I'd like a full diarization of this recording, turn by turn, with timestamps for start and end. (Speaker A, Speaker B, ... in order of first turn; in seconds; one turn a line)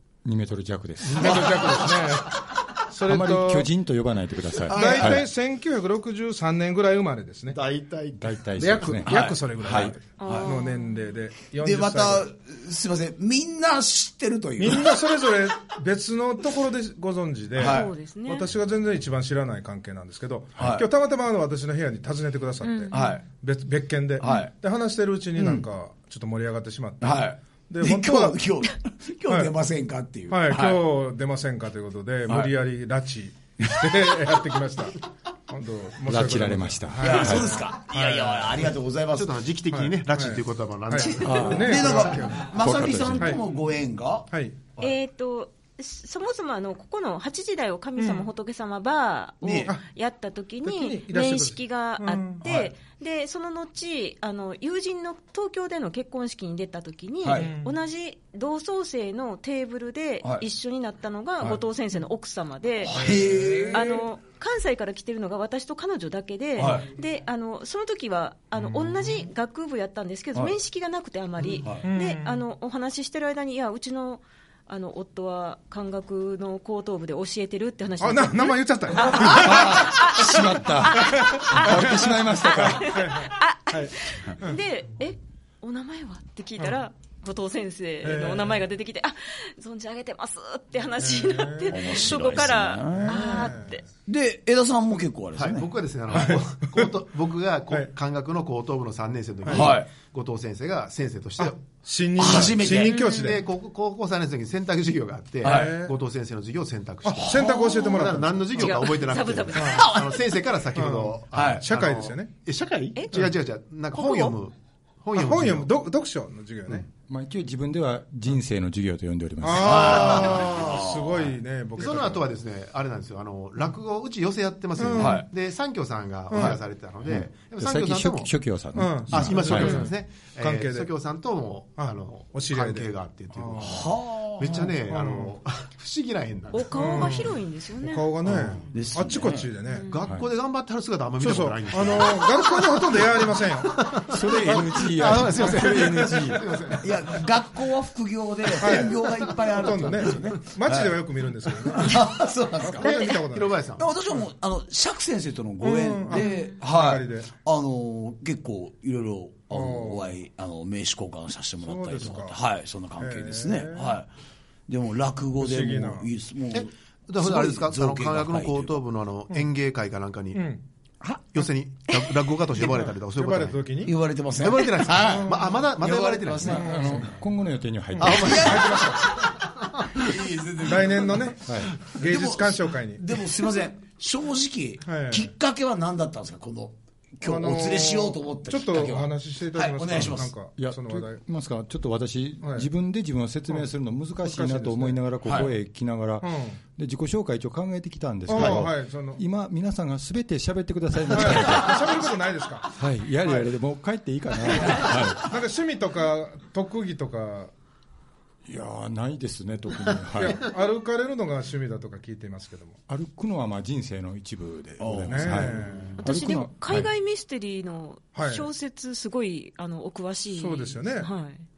Speaker A: 0.2-1.6
Speaker B: 1.0-3.7
Speaker C: 1.1-2.2
Speaker A: 3.0-5.3
Speaker C: 4.7-5.2
Speaker B: 4.7-7.6
Speaker D: 7.5-8.4
Speaker A: 8.1-9.9
Speaker B: 8.6-12.3
Speaker C: 9.1-10.5
Speaker E: 10.2-10.9
Speaker C: 11.6-15.0
Speaker B: 14.6-28.4
Speaker C: 17.5-17.9
Speaker E: 17.6-18.5
Speaker C: 20.6-20.9
Speaker E: 22.6-23.2
Speaker C: 22.9-23.2
Speaker C: 24.2-24.5
Speaker C: 25.4-25.6
Speaker C: 27.0-30.9
Speaker B: 29.3-29.5
Speaker B: 30.3-38.7
Speaker C: 32.3-32.5
Speaker C: 33.6-33.9
Speaker A: 36.0-37.6
Speaker C: 37.0-39.3
Speaker D: 39.1-42.1
Speaker B: 39.7-42.5
Speaker C: 41.0-44.3
Speaker A: 41.2-41.8
Speaker A: 42.5-43.4
Speaker B: 44.3-44.7
Speaker E: 44.8-63.0
Speaker B: 48.0-48.3
Speaker C: 49.4-49.7
Speaker B: 50.6-52.7
Speaker C: 57.2-57.5
Speaker B: 57.3-57.8
Speaker C: 62.8-64.0
Speaker B: 62.9-63.9
Speaker E: 63.6-93.8
Speaker C: 66.5-66.9
Speaker B: 68.5-69.2
Speaker C: 71.6-71.9
Speaker B: 71.8-72.4
Speaker B: 78.0-79.8
Speaker A: 79.2-83.1
Speaker B: 81.0-81.9
Speaker B: 82.6-84.6
Speaker B: 88.0-88.6
Speaker B: 91.0-91.9
Speaker C: 91.7-93.4
Speaker B: 92.9-93.8
Speaker C: 94.1-95.7
Speaker D: 95.4-115.7
Speaker B: 96.1-96.9
Speaker B: 99.4-99.8
Speaker C: 99.5-99.9
Speaker B: 101.4-103.4
Speaker C: 102.2-103.0
Speaker E: 102.8-103.4
Speaker C: 105.4-105.7
Speaker B: 105.4-105.9
Speaker B: 107.0-108.7
Speaker C: 107.2-108.2
Speaker E: 108.5-110.0
Speaker B: 109.5-109.9
Speaker C: 109.6-110.3
Speaker B: 110.7-112.3
Speaker C: 111.3-111.6
Speaker E: 113.9-114.4
Speaker B: 115.1-116.9
Speaker A: 117.1-119.8
Speaker B: 119.4-122.2
Speaker C: 119.5-121.3
Speaker D: 119.9-120.9
Speaker D: 121.7-128.3
Speaker B: 124.8-125.2
Speaker C: 124.9-125.3
Speaker B: 126.3-126.6
Speaker A: 127.0-129.9
Speaker B: 128.7-130.9
Speaker C: 129.1-129.9
Speaker D: 129.1-137.1
Speaker B: 131.8-133.9
Speaker C: 133.6-134.7
Speaker B: 134.9-135.3
Speaker E: 136.5-138.1
Speaker B: 136.7-139.9
Speaker D: 138.2-138.6
Speaker C: 138.7-139.5
Speaker E: 139.7-140.0
Speaker D: 139.8-146.9
Speaker B: 141.2-146.4
Speaker A: 144.1-146.4
Speaker C: 146.8-153.1
Speaker B: 148.6-153.6
Speaker D: 152.8-153.9
Speaker C: 153.8-164.1
Speaker B: 155.6-157.3
Speaker E: 156.1-156.5
Speaker B: 159.5-160.1
Speaker B: 161.6-162.4
Speaker B: 163.0-163.9
Speaker C: 164.7-168.8
Speaker B: 165.4-166.1
Speaker D: 166.5-170.4
Speaker B: 170.3-170.6
Speaker C: 171.0-171.3
Speaker D: 171.3-173.6
Speaker B: 172.8-173.9
Speaker C: 173.8-177.1
Speaker D: 174.3-176.8
Speaker B: 175.0-175.5
Speaker A: 176.4-178.7
Speaker B: 176.5-177.0
Speaker B: 178.0-179.3
Speaker C: 178.0-179.3
Speaker D: 178.0-180.0
Speaker C: 179.9-190.3
Speaker B: 180.6-183.3
Speaker A: 181.4-181.7
Speaker B: 184.8-185.3
Speaker B: 187.2-191.2
Speaker A: 190.6-202.0
Speaker B: 192.4-192.7
Speaker B: 194.2-195.0
Speaker C: 195.2-195.5
Speaker B: 196.2-196.6
Speaker B: 198.3-199.2
Speaker B: 201.1-203.4
Speaker A: 202.7-205.3
Speaker B: 204.8-207.5
Speaker A: 208.4-210.5
Speaker B: 210.1-212.8
Speaker A: 212.9-216.9
Speaker C: 214.8-215.9
Speaker B: 215.1-215.9
Speaker E: 216.0-221.4
Speaker B: 218.1-218.5
Speaker B: 220.3-221.1